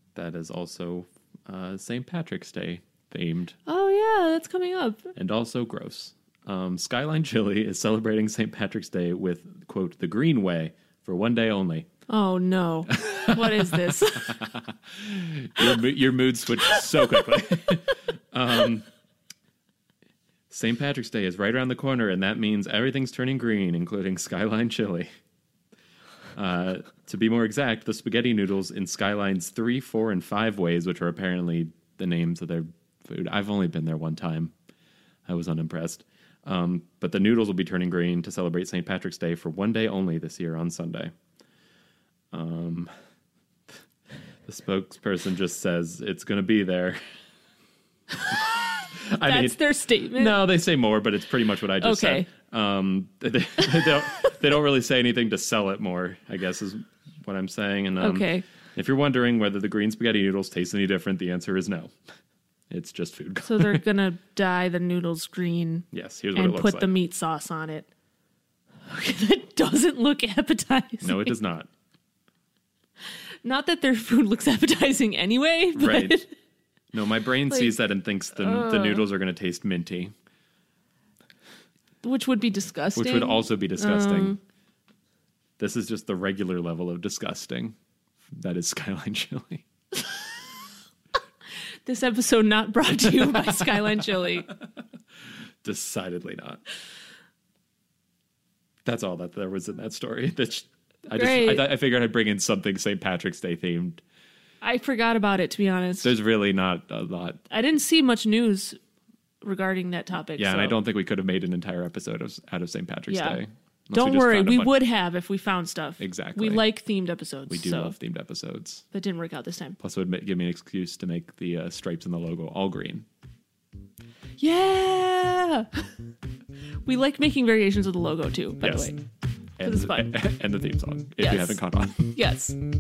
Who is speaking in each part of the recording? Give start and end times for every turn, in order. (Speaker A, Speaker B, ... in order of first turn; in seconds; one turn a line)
Speaker A: 0.1-3.5
Speaker B: 3.6-5.1
Speaker A: 5.1-11.9
Speaker B: 12.1-14.5
Speaker A: 12.9-18.9
Speaker A: 20.5-25.1
Speaker A: 26.4-34.5
Speaker A: 35.2-41.1
Speaker A: 42.3-42.9
Speaker A: 44.4-47.0
Speaker B: 48.2-50.4
Speaker A: 48.3-61.9
Speaker B: 51.8-52.3
Speaker B: 58.0-58.4
Speaker A: 62.7-63.8
Speaker B: 63.4-67.9
Speaker A: 65.9-66.9
Speaker B: 68.9-71.3
Speaker A: 71.0-71.7
Speaker B: 73.4-76.3
Speaker A: 75.7-76.2
Speaker A: 76.9-80.1
Speaker B: 78.4-79.0
Speaker B: 82.0-84.4
Speaker A: 82.9-84.4
Speaker A: 85.6-87.8
Speaker A: 88.3-89.6
Speaker B: 91.9-94.5
Speaker A: 93.0-94.1
Speaker A: 95.6-96.6
Speaker A: 98.8-104.0
Speaker B: 101.1-101.7
Speaker B: 104.6-106.1
Speaker A: 106.0-107.4
Speaker B: 107.5-108.8
Speaker B: 109.4-110.8
Speaker A: 110.4-114.7
Speaker B: 113.1-113.4
Speaker B: 113.9-118.0
Speaker A: 116.0-116.6
Speaker A: 117.5-118.8
Speaker B: 118.9-119.8
Speaker A: 119.8-123.1
Speaker B: 124.4-125.9
Speaker B: 126.9-129.0
Speaker A: 128.6-128.9
Speaker A: 129.6-132.1
Speaker B: 129.6-130.1
Speaker B: 131.2-132.6